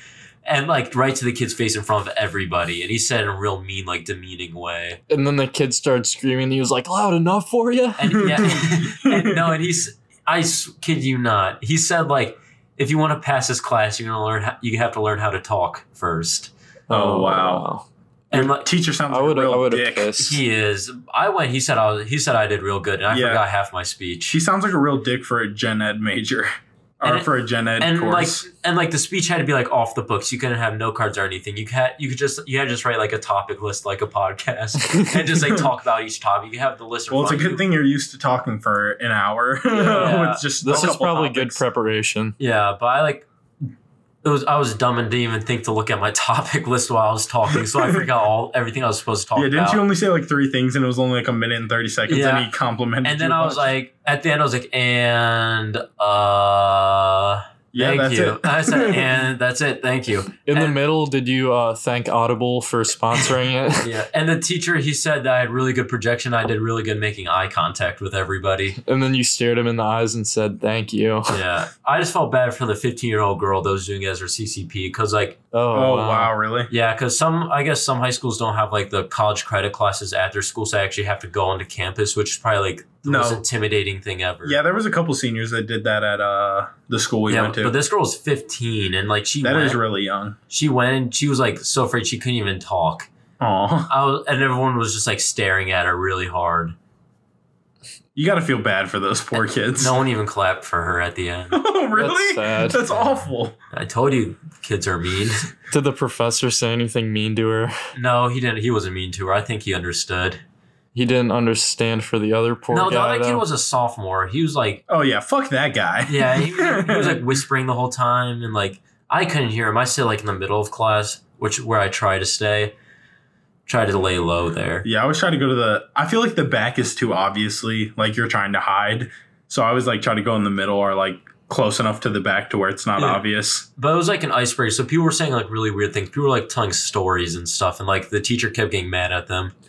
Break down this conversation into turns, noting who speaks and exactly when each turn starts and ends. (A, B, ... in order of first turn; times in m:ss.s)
0:00.4-0:05.0 A
0:05.1-0:08.6 B
0:08.0-0:16.5 A
0:08.3-0:09.6 C
0:16.9-0:17.9 B
0:16.9-0:17.6 C
0:18.3-0:18.7 A
0:18.3-0:20.2 C
0:19.1-0:20.4 B
0:20.2-0:24.4 A
0:23.1-0:23.4 C
0:24.3-0:26.5 C
0:27.0-0:28.4 C
0:27.0-0:37.6 A
0:37.1-0:41.6 C
0:39.7-0:41.0 A
0:40.6-0:42.4 B
0:42.4-0:43.3 A
0:44.2-0:49.8 A
0:47.8-0:48.0 C
0:49.4-0:53.7 C
0:52.1-0:52.5 A
0:53.0-1:00.8 A
0:57.7-0:59.1 C
1:00.4-1:03.9 B
1:03.8-1:08.8 A
1:08.8-1:11.4 B
1:11.3-1:15.4 A
1:15.5-1:16.3 B
1:15.7-1:16.7 C
1:16.7-1:24.6 A
1:23.1-1:23.4 C
1:24.4-1:27.8 C
1:27.3-1:29.8 A
1:29.4-1:30.4 C
1:30.5-1:33.1 A
1:33.4-1:33.9 C
1:33.9-1:36.8 A
1:38.1-1:40.0 C
1:39.3-1:41.6 A
1:41.5-1:43.6 C
1:42.0-1:42.8 B
1:42.9-1:45.5 A
1:45.7-1:47.7 B
1:47.9-1:50.4 A
1:50.9-1:53.4 B
1:52.7-1:54.8 A
1:54.9-1:57.4 C
1:56.1-2:02.7 A
2:03.7-2:04.9 A
2:04.8-2:13.7 C
2:13.0-2:13.2 A
2:13.8-2:19.5 A